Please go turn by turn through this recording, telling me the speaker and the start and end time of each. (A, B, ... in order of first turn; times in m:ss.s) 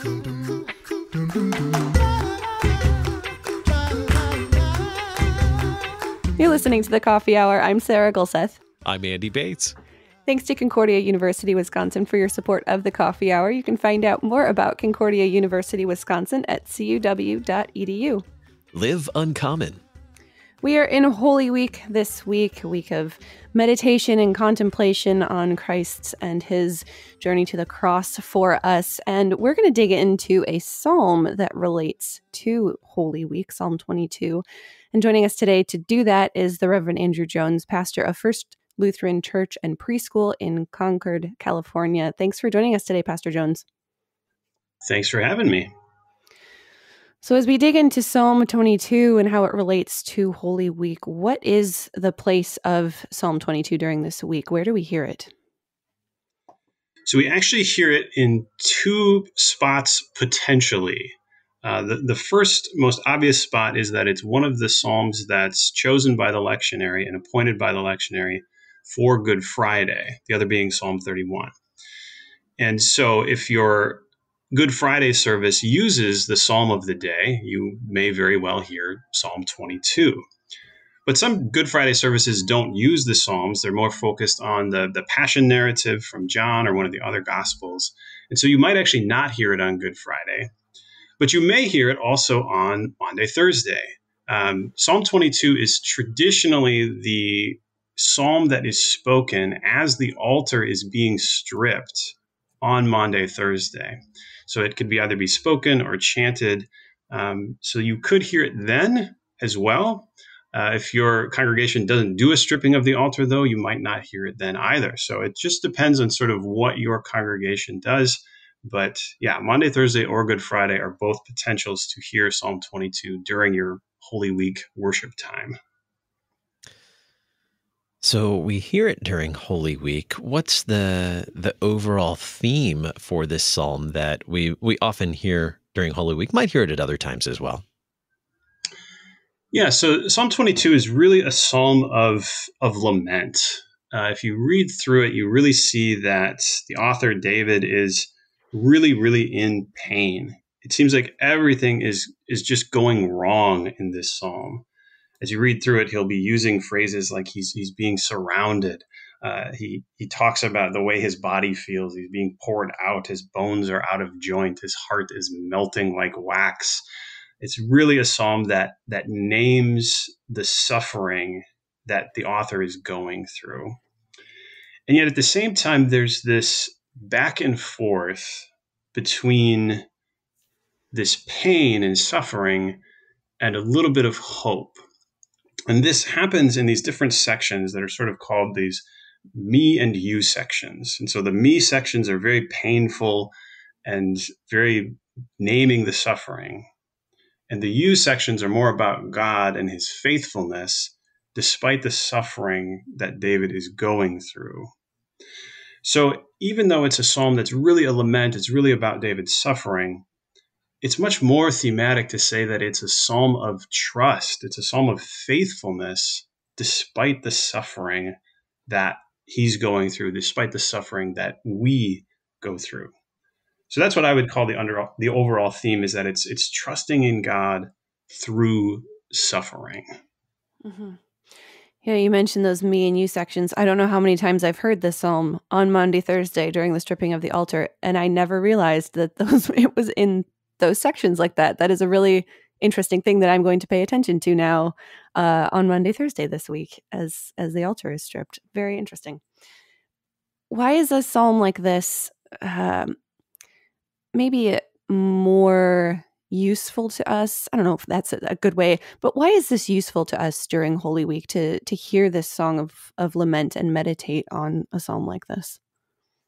0:06.4-0:08.6 A
0:08.8-0:09.8 B
0:10.2-0:18.2 A
0:18.7-0:19.8 B
0:20.6-0:43.6 A
0:44.8-0:45.7 C
0:47.2-0:55.3 A
0:57.0-1:11.5 C
1:12.6-1:20.2 C
1:21.0-1:30.5 C
1:31.2-2:05.6 C
2:08.0-2:17.6 B
2:19.5-2:34.6 C
2:35.2-2:46.8 C
2:47.4-2:53.8 C
2:54.9-2:59.8 C
3:00.9-3:02.8 C
3:03.4-3:04.8 C
3:05.7-3:16.7 C
3:17.5-3:24.7 C
3:25.8-3:30.0 C
3:30.8-3:42.9 C
3:43.7-3:49.9 C
3:50.6-3:51.0 A
3:51.8-4:09.2 A
4:10.5-4:13.0 A
4:14.1-4:25.6 A